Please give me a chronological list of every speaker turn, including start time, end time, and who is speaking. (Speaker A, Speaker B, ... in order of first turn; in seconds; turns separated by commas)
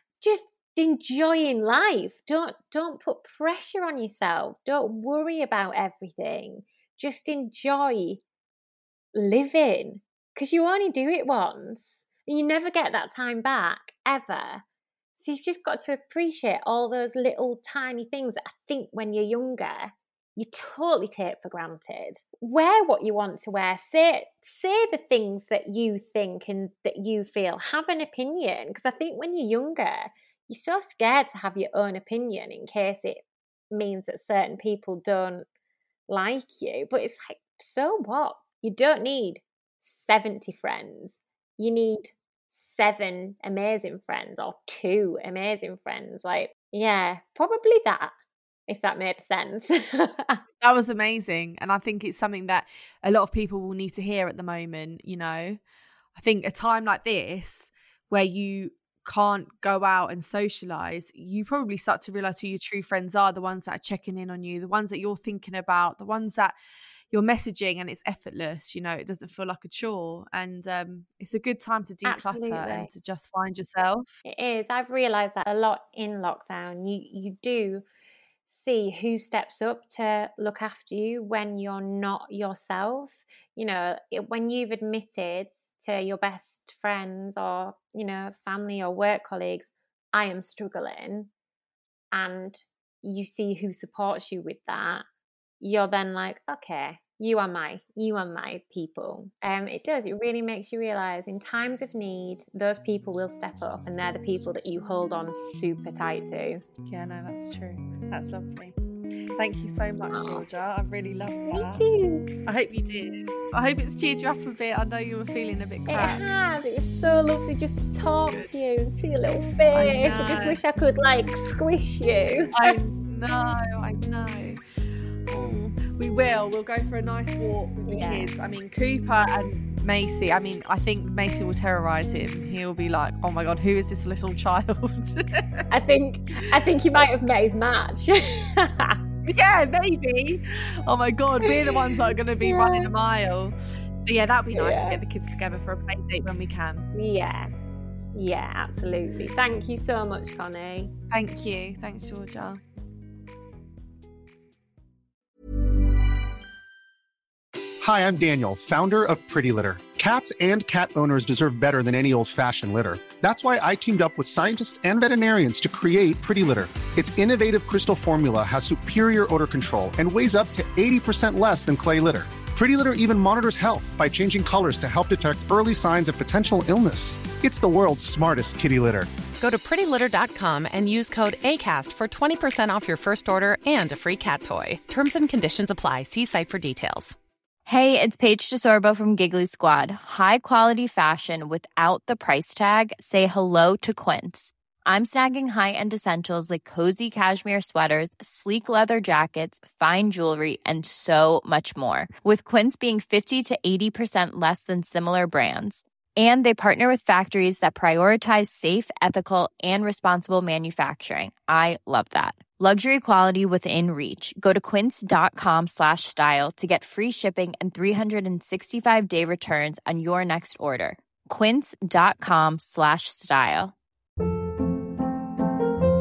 Speaker A: 0.2-8.2, Speaker A: 9.1-14.6, Speaker A: 15.2-35.4, Speaker A: 36.1-48.1, Speaker A: 48.7-50.4, Speaker B: 50.6-55.6, Speaker B: 56.1-66.5, Speaker B: 67.1-74.2, Speaker A: 72.0-72.9, Speaker A: 74.3-77.8, Speaker A: 78.5-91.3, Speaker A: 92.1-95.0, Speaker A: 95.6-106.6, Speaker B: 106.8-108.8, Speaker B: 109.4-111.8, Speaker A: 110.1-110.4, Speaker A: 111.5-112.3, Speaker B: 112.5-116.2, Speaker A: 115.9-122.8, Speaker B: 118.3-118.5, Speaker B: 119.7-120.6, Speaker B: 122.5-124.6, Speaker B: 125.3-135.6, Speaker A: 127.9-128.3, Speaker A: 135.7-139.0, Speaker B: 139.2-146.9, Speaker A: 141.4-142.9, Speaker A: 144.5-145.0, Speaker A: 146.9-147.5, Speaker A: 148.1-150.9, Speaker B: 151.1-152.6, Speaker C: 157.8-179.1, Speaker D: 179.4-187.2, Speaker E: 187.7-223.7